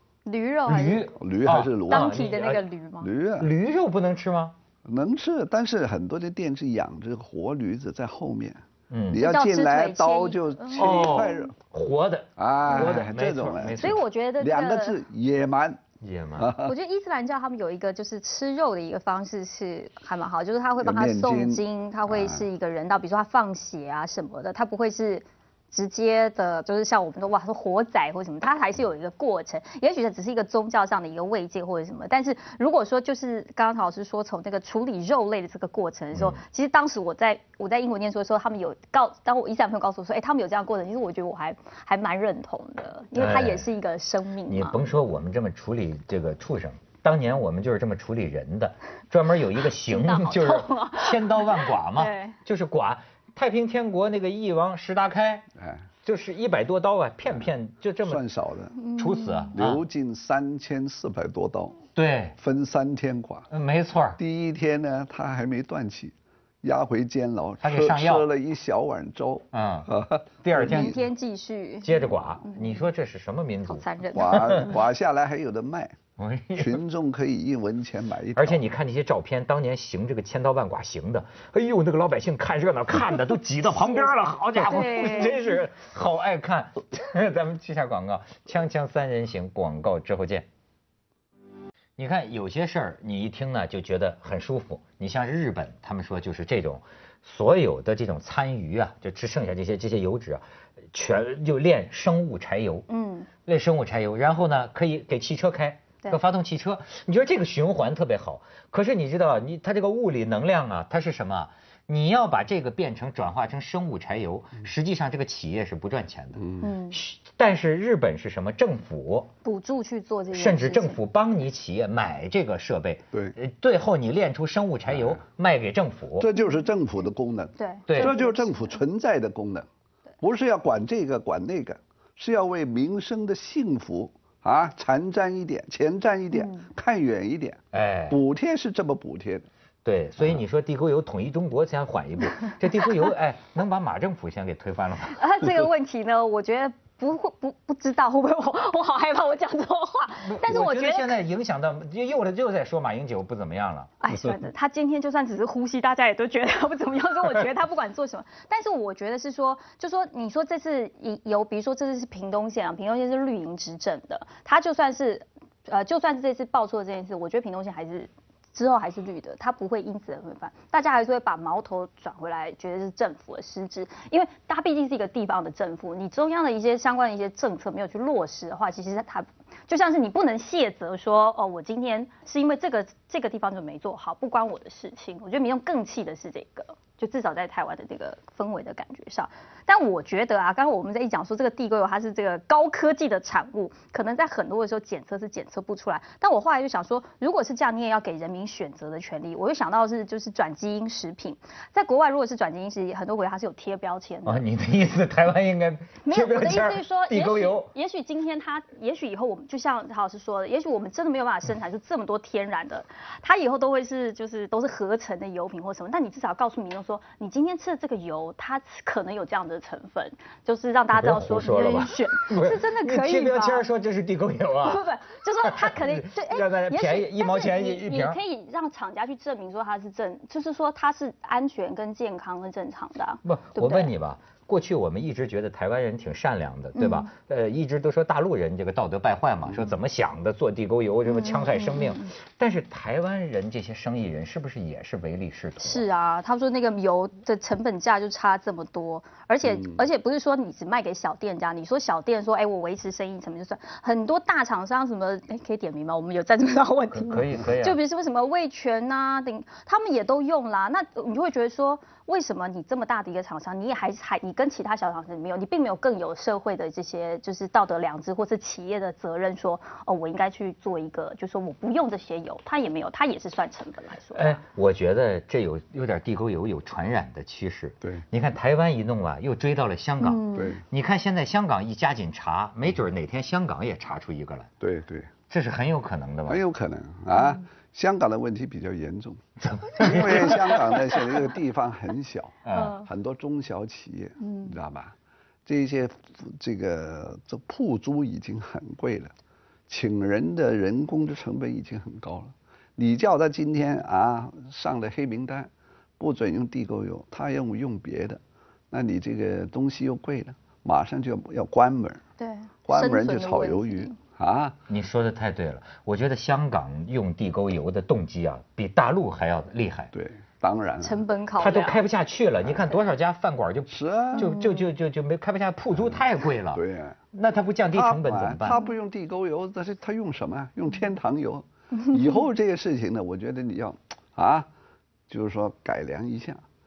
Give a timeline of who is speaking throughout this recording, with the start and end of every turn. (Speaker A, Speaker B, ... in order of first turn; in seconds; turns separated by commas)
Speaker A: 0.2-1.1, Speaker B: 0.7-2.6, Speaker C: 1.1-2.2, Speaker A: 1.9-3.1, Speaker C: 3.0-3.5, Speaker B: 3.4-4.5, Speaker C: 4.8-11.5, Speaker B: 8.9-9.2, Speaker A: 9.2-11.5, Speaker B: 10.8-14.0, Speaker C: 12.4-15.8, Speaker A: 12.7-13.0, Speaker A: 13.7-15.0, Speaker B: 16.0-16.5, Speaker C: 16.4-16.8, Speaker A: 16.6-44.8, Speaker C: 20.8-22.5, Speaker B: 36.1-36.4, Speaker B: 43.2-43.7, Speaker B: 44.5-55.5, Speaker A: 49.8-52.4, Speaker C: 55.6-55.8, Speaker B: 56.0-58.2, Speaker C: 58.0-58.8, Speaker A: 58.8-59.5, Speaker B: 59.0-59.8, Speaker C: 59.5-61.8, Speaker B: 62.0-62.4, Speaker C: 62.4-63.5, Speaker B: 63.5-64.2, Speaker C: 64.2-71.0, Speaker B: 67.6-68.3, Speaker B: 69.5-69.9, Speaker B: 70.4-71.0, Speaker A: 70.6-72.9, Speaker B: 71.8-74.8, Speaker A: 73.7-74.7, Speaker C: 74.1-76.0, Speaker B: 76.2-76.8, Speaker C: 76.5-78.6, Speaker B: 78.3-90.5, Speaker A: 83.8-85.5, Speaker B: 92.0-102.9, Speaker A: 102.9-103.3, Speaker B: 103.5-119.3, Speaker A: 116.6-117.0, Speaker A: 119.4-121.0, Speaker B: 120.3-126.3, Speaker C: 126.2-129.7, Speaker A: 127.6-128.8, Speaker B: 127.9-128.2, Speaker C: 130.2-139.5, Speaker A: 136.3-136.7, Speaker B: 137.7-138.2, Speaker B: 139.8-145.2, Speaker A: 145.2-151.2, Speaker B: 150.3-153.9, Speaker A: 154.0-204.5, Speaker B: 204.3-207.7, Speaker A: 206.1-223.7, Speaker B: 220.9-224.9, Speaker A: 224.6-233.9, Speaker B: 225.4-228.2, Speaker B: 233.2-245.8, Speaker A: 236.8-237.1, Speaker A: 241.1-242.1, Speaker A: 245.6-274.4, Speaker C: 249.6-249.8, Speaker B: 256.9-257.8, Speaker B: 274.1-284.5, Speaker A: 280.0-280.6, Speaker C: 280.4-280.6, Speaker C: 284.6-285.1, Speaker B: 285.3-286.4, Speaker C: 286.3-294.9, Speaker A: 287.1-287.4, Speaker B: 289.4-291.0, Speaker B: 292.4-292.8, Speaker A: 292.5-292.9, Speaker A: 294.2-294.6, Speaker C: 295.5-299.1, Speaker C: 299.7-312.0, Speaker A: 312.2-314.0, Speaker C: 312.7-314.6, Speaker B: 314.7-319.9, Speaker C: 319.9-321.0, Speaker A: 320.8-321.8, Speaker B: 321.4-326.6, Speaker C: 323.7-324.3, Speaker A: 324.2-324.7, Speaker C: 325.8-327.0, Speaker B: 327.1-328.6, Speaker C: 327.7-334.5, Speaker C: 335.1-336.4